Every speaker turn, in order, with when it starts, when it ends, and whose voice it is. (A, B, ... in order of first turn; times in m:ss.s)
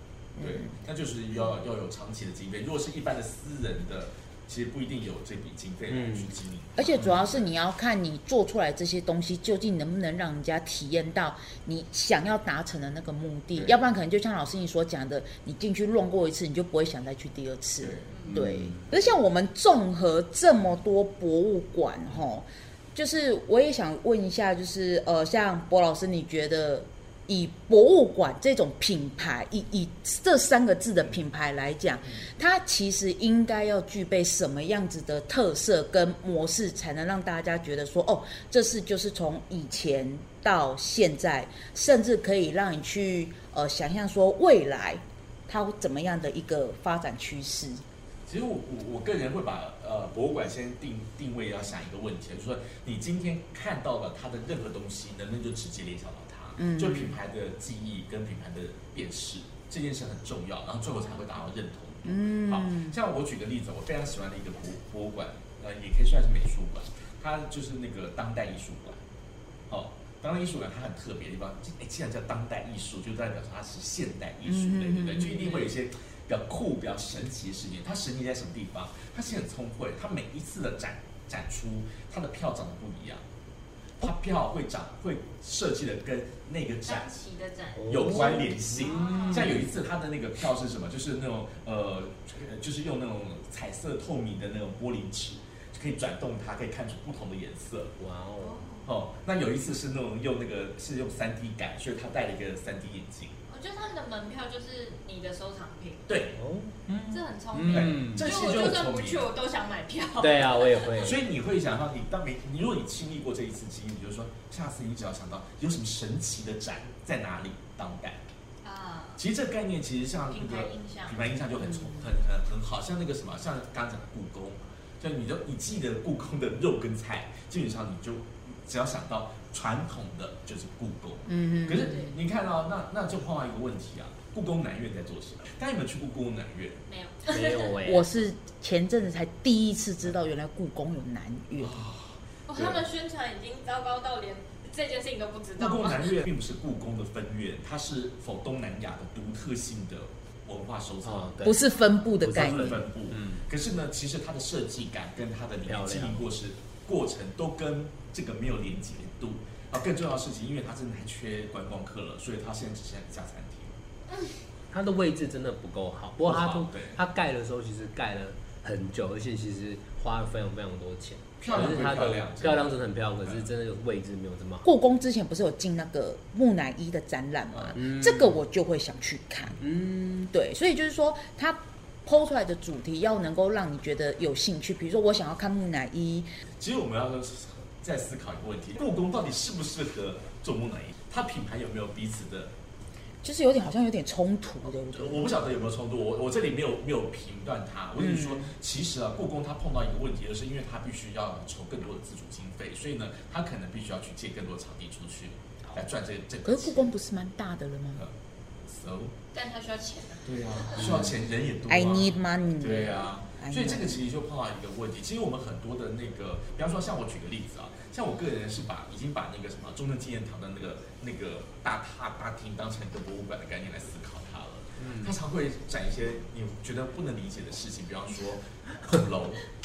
0:00.4-0:00.7 A
0:00.4-0:07.4 B
0:05.9-0:06.3 C
0:06.8-0:47.8 A
0:17.8-0:18.2 B
0:18.3-0:18.8 C
0:48.2-1:09.0 B
0:56.6-0:57.2 A
1:02.0-1:03.0 A
1:09.7-1:23.2 B
1:14.4-1:15.6 A
1:24.0-1:27.1 B
1:26.8-1:29.6 D
1:27.8-1:29.7 C
1:27.9-1:37.9 B
1:38.0-1:38.6 C
1:38.4-1:38.9 D
1:38.8-1:43.3 B
1:43.5-1:46.2 D
1:46.1-1:46.4 B
1:46.4-1:48.3 C
1:47.1-1:50.9 D
1:47.7-1:49.3 B
1:50.2-1:51.2 C
1:51.0-1:58.2 B
1:58.6-1:59.2 D
1:59.2-2:16.8 B
2:00.3-2:01.2 D
2:01.7-2:02.0 A
2:11.3-2:12.0 A
2:11.8-2:12.1 D
2:16.9-2:17.7 D
2:17.2-2:18.1 C
2:17.8-2:21.8 A
2:21.6-2:22.8 B
2:22.5-2:26.1 D
2:25.6-2:31.3 B
2:31.0-2:31.6 C
2:31.4-2:32.8 A
2:32.2-2:33.4 C
2:32.3-2:43.7 B
2:35.6-2:36.2 C
2:44.7-2:54.6 C
2:46.2-2:47.0 B
2:51.4-2:53.4 B
2:54.6-3:06.3 A
2:57.7-2:58.4 C
2:59.6-3:00.0 C
3:06.6-3:12.5 B
3:13.2-3:15.3 A
3:14.9-3:26.9 B
3:18.0-3:18.5 A
3:26.4-3:28.0 A
3:28.0-3:29.1 B
3:29.3-3:31.0 D
3:30.2-3:49.4 B
3:31.7-3:34.0 A
3:44.8-3:45.1 C